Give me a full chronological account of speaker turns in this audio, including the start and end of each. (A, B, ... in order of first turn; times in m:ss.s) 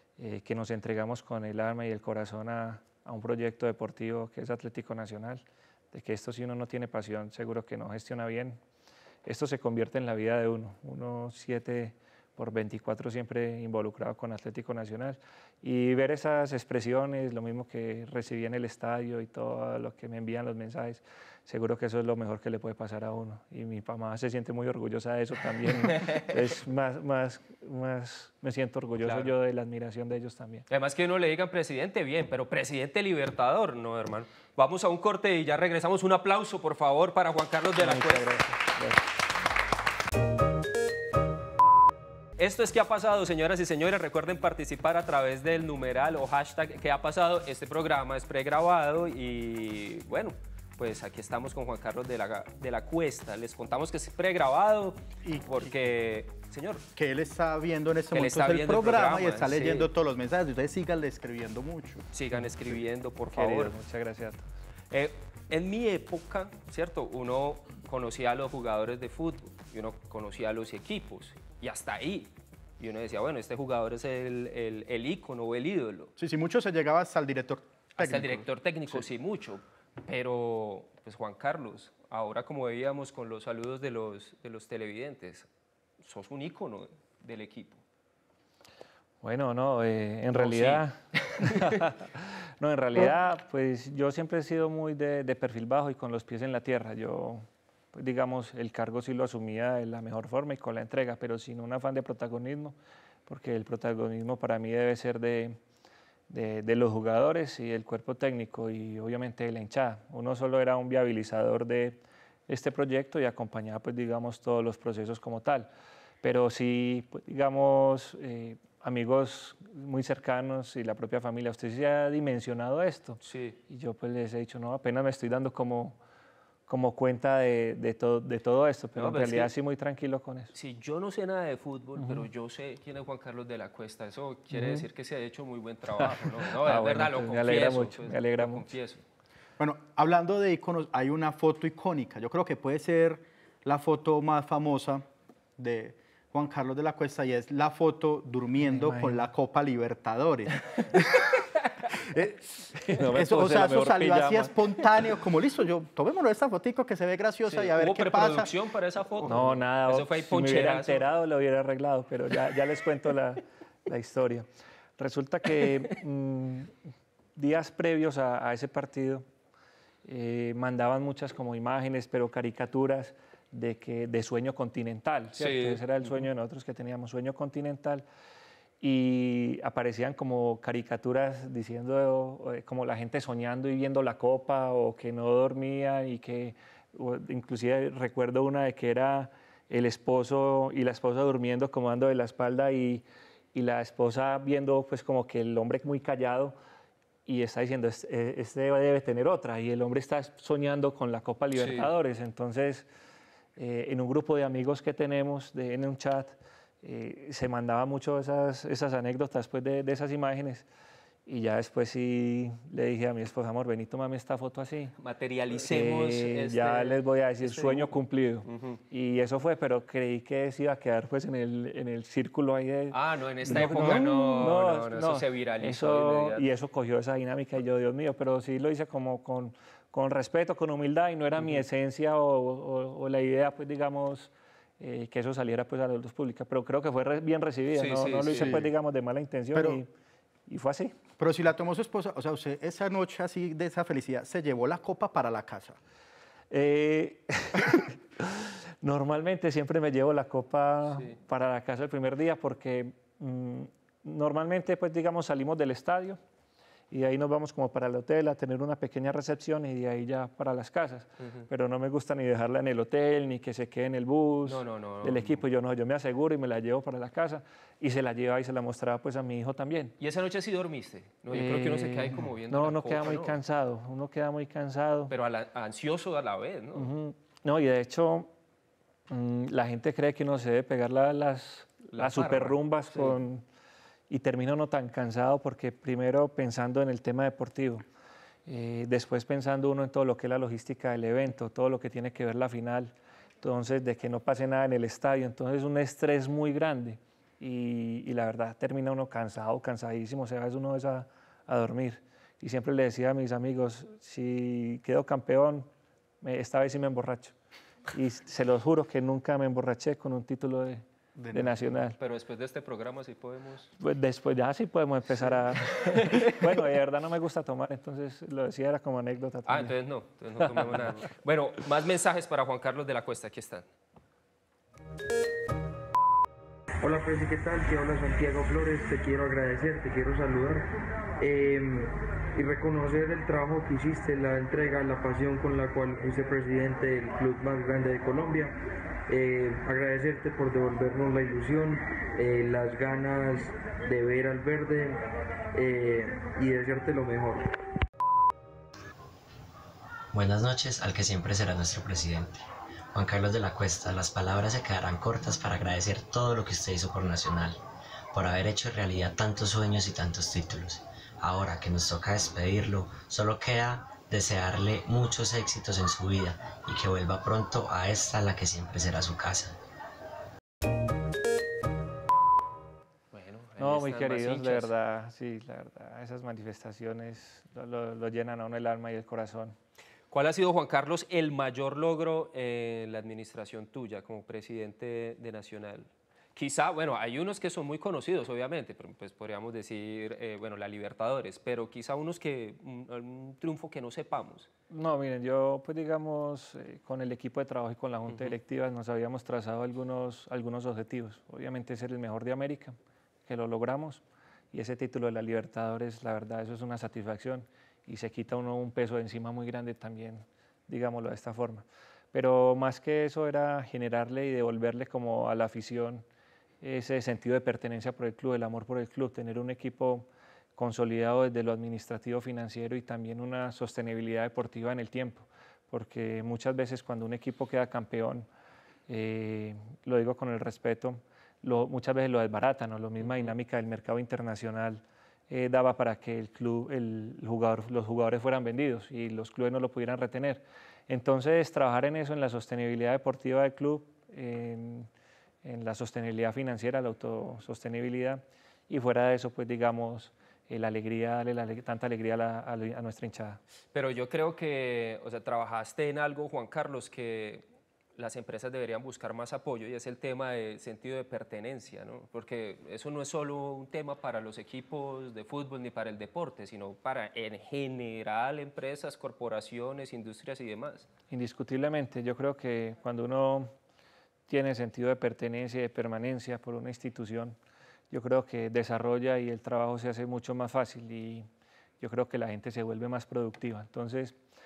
0:00.2-0:08.6 A
0:09.2-0:30.7 A
0:25.9-0:26.3 B
0:29.0-0:29.3 B
0:30.7-0:38.2 B
0:37.8-0:39.0 A
0:42.4-0:56.8 B
0:55.2-0:55.7 C
0:56.9-1:02.0 C
0:58.1-0:59.9 B
1:02.1-1:03.7 B
1:03.3-1:04.5 A
1:04.9-1:16.1 B
1:16.2-1:19.0 C
1:18.0-1:25.5 B
1:26.0-1:27.8 B
1:29.2-1:42.8 A
1:30.3-1:31.8 B
1:43.3-1:45.6 A
1:46.3-1:55.7 A
1:56.2-2:06.0 A
2:03.2-2:03.6 B
2:06.7-2:10.5 A
2:09.0-2:09.5 B
2:10.5-2:19.0 B
2:12.0-2:12.3 A
2:14.5-2:14.8 A
2:16.0-2:18.7 A
2:19.6-2:25.0 C
2:25.6-2:31.2 C
2:28.6-2:29.2 A
2:32.2-2:34.5 A
2:33.1-2:38.5 C
2:37.4-2:41.0 B
2:39.2-2:44.5 A
2:45.0-2:46.7 A
2:47.3-2:49.2 A
2:50.0-2:58.0 A
2:55.3-2:56.3 B
2:58.8-3:16.6 A
3:17.2-3:22.9 A
3:21.5-3:21.9 B
3:23.6-3:30.6 A
3:31.2-3:34.9 A
3:35.0-3:38.8 B
3:35.6-3:59.9 A
3:42.9-3:46.4 B
3:51.4-3:51.6 B
3:57.7-3:58.6 B
3:58.4-3:58.7 C
3:59.5-3:59.8 C
4:00.5-4:01.0 A
4:01.2-4:05.8 C
4:06.5-4:16.2 A
4:10.9-4:11.2 B
4:16.9-4:30.0 A
4:21.2-4:21.5 B
4:24.4-4:25.4 B
4:30.0-4:33.4 B
4:31.3-4:35.1 A
4:35.1-4:36.9 B
4:36.7-4:38.3 A
4:39.1-4:43.4 A
4:41.9-4:43.2 B
4:44.1-4:47.8 A
4:48.5-5:05.7 A
5:06.2-5:07.3 A
5:07.9-5:12.0 A
5:11.2-5:11.7 C
5:12.0-5:13.7 B
5:13.8-5:19.8 A
5:15.1-5:16.4 B
5:19.5-5:23.7 B
5:20.4-5:21.0 A
5:26.8-5:30.7 D
5:31.2-5:38.6 D
5:39.1-5:45.0 D
5:45.5-5:47.5 D
5:50.1-5:52.3 E
5:52.9-5:57.6 E
5:58.1-6:09.6 E
6:13.1-6:14.7 B
6:13.6-6:19.6 A
6:20.1-6:34.5 B
6:34.7-6:56.0 A
6:38.1-6:38.4 B
6:56.6-7:08.3 A
7:08.9-7:24.9 A
7:13.0-7:13.3 B
7:25.4-7:33.4 A
7:33.7-7:37.4 B
7:38.0-7:50.9 B
7:51.1-7:53.5 A
7:54.3-7:57.4 A
7:57.9-8:01.3 A
8:01.8-8:04.2 A